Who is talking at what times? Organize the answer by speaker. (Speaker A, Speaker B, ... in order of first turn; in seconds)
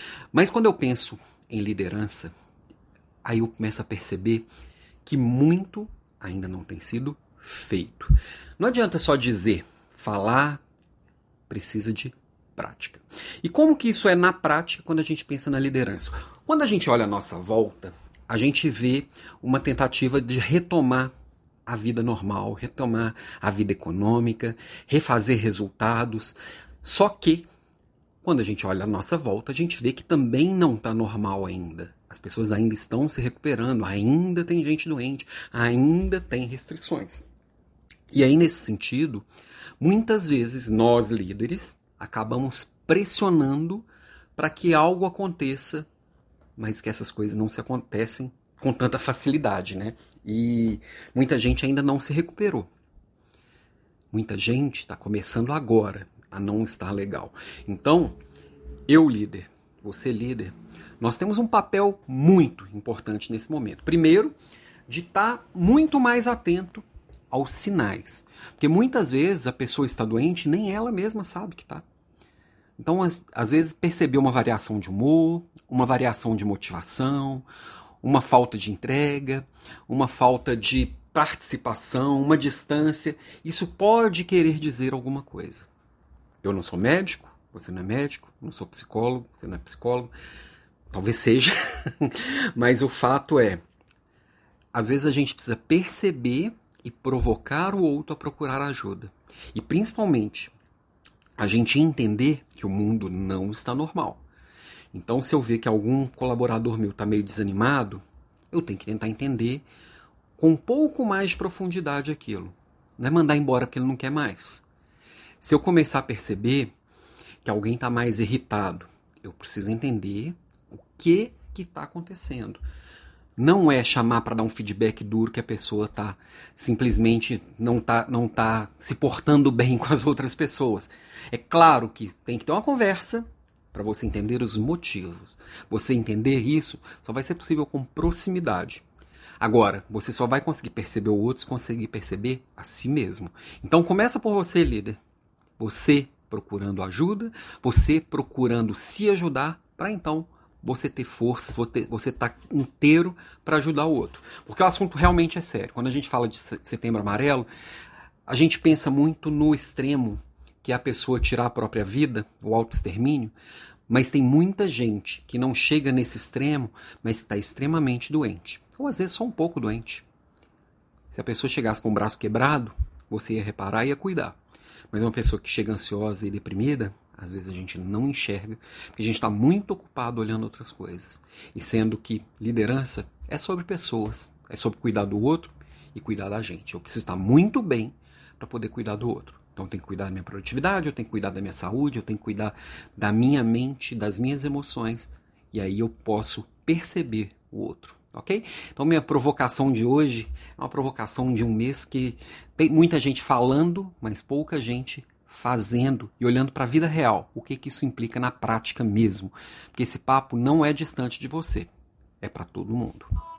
Speaker A: 0.3-2.3, 3.2-4.5, 5.0-10.6, 11.5-21.1, 21.7-27.5, 28.2-37.3, 38.1-39.3, 39.8-45.9, 46.6-52.7, 54.1-58.2, 58.9-64.3, 64.9-71.8, 72.8-77.5, 78.0-85.7, 86.4-90.1, 90.9-93.6, 94.7-100.5, 101.4-104.2, 104.9-109.6, 110.4-114.7, 115.4-116.7, 117.4-122.6, 123.4-138.8, 139.4-145.0, 145.6-157.5, 158.3-163.3, 163.9-170.1, 171.1-174.4, 174.9-211.7, 212.2-213.1